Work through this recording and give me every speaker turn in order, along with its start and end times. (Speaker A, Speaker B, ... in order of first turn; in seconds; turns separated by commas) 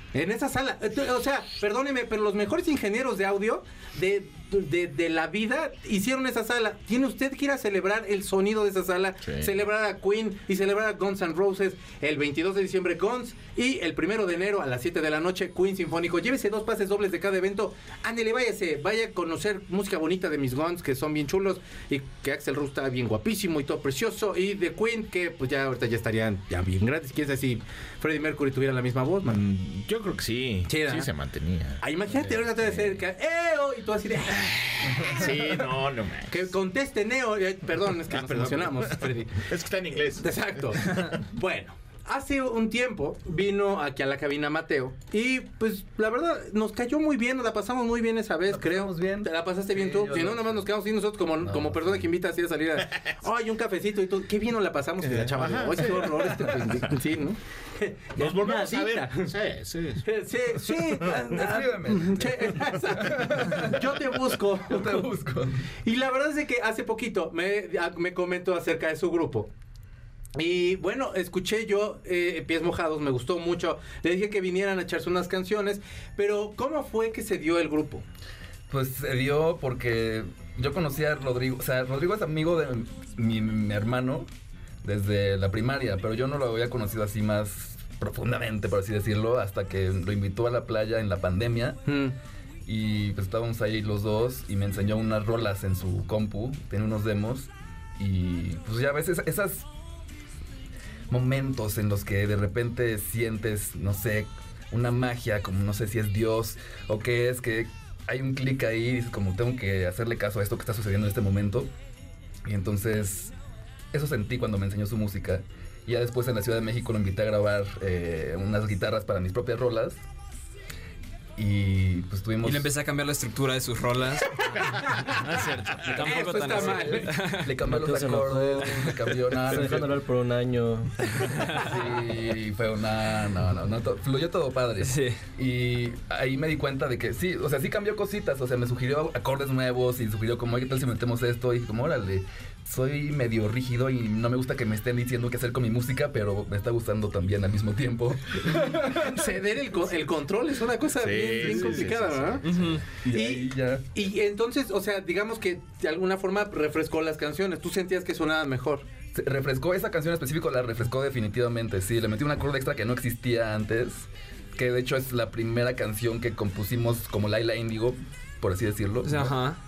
Speaker A: 0.1-29.4, Speaker B: 9.2-9.5, Speaker B: 29.2-33.0, Speaker A: 30.7-31.1, Speaker A: 31.8-35.5, Speaker B: 34.8-36.4, Speaker A: 36.3-39.5, Speaker B: 38.1-41.1, Speaker A: 40.2-59.3, Speaker C: 48.5-50.6, Speaker B: 55.0-56.8, Speaker B: 58.2-61.2, Speaker A: 60.0-65.1, Speaker C: 61.2-64.0, Speaker C: 64.5-65.6, Speaker A: 65.8-69.5, Speaker A: 70.3-78.0, Speaker C: 78.7-84.3, Speaker C: 84.8-91.9, Speaker A: 91.8-92.1, Speaker C: 92.7-99.7, Speaker C: 101.1-111.7, Speaker C: 112.5-113.3, Speaker C: 113.9-120.0, Speaker C: 121.4-122.7, Speaker D: 122.4-127.6, Speaker A: 124.6-125.2, Speaker B: 125.8-126.1, Speaker A: 125.9-127.1, Speaker C: 126.7-129.9, Speaker E: 127.6-128.8, Speaker E: 129.4-131.3, Speaker D: 131.3-131.6, Speaker C: 131.6-149.4, Speaker D: 134.8-135.2, Speaker A: 148.6-152.4, Speaker B: 151.0-152.2, Speaker C: 151.4-153.8, Speaker D: 152.4-152.8, Speaker A: 153.1-158.8, Speaker C: 159.1-169.4, Speaker D: 169.0-169.6